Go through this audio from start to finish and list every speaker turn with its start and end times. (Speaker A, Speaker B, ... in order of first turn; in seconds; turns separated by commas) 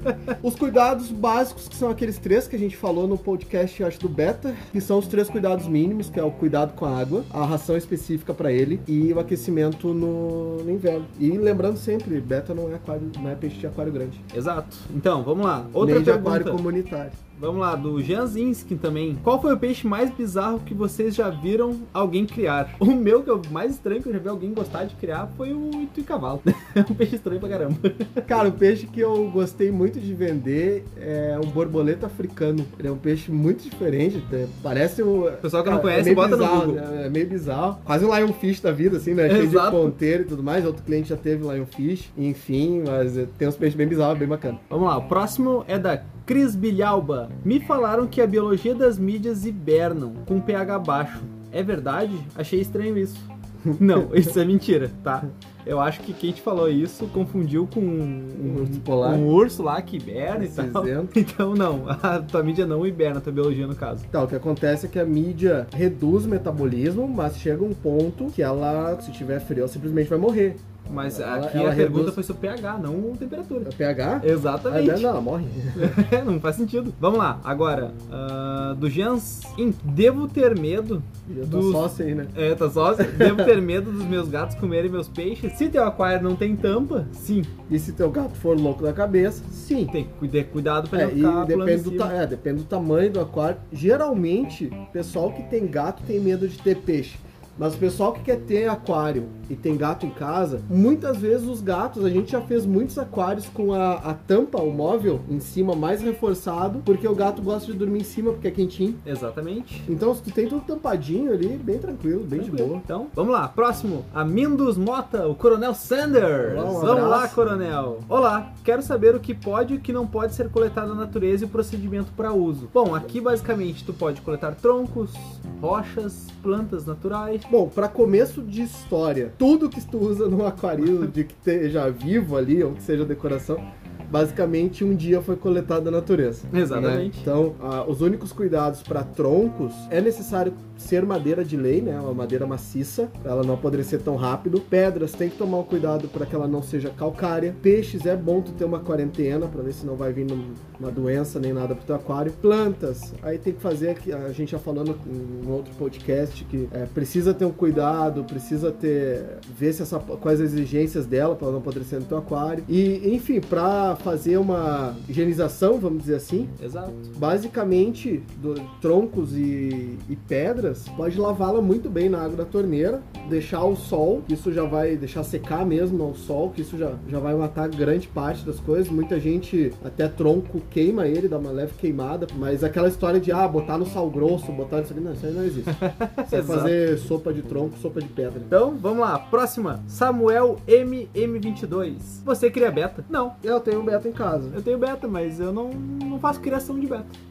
Speaker A: 0.4-14.2, Speaker B: 14.3-16.6, Speaker A: 15.8-17.2, Speaker B: 17.4-28.3, Speaker A: 28.3-44.6, Speaker B: 35.4-36.8, Speaker B: 39.3-40.0, Speaker B: 44.7-64.1, Speaker A: 53.7-54.1, Speaker A: 58.4-59.3, Speaker A: 60.3-61.1, Speaker A: 64.1-72.2, Speaker B: 70.9-75.1, Speaker A: 73.7-76.0, Speaker B: 75.8-87.5, Speaker A: 81.3-82.3, Speaker A: 83.0-83.5, Speaker A: 87.7-89.9, Speaker B: 89.9-92.1, Speaker A: 90.9-109.0, Speaker B: 109.0-109.9, Speaker A: 109.9-112.8, Speaker B: 112.4-127.5, Speaker A: 116.4-117.4, Speaker A: 127.5-166.5, Speaker B: 136.5-137.3, Speaker B: 166.6-167.1, Speaker A: 167.2-188.5, Speaker B: 185.7-186.8, Speaker B: 188.5-193.4, Speaker A: 193.4-194.6, Speaker B: 194.5-197.1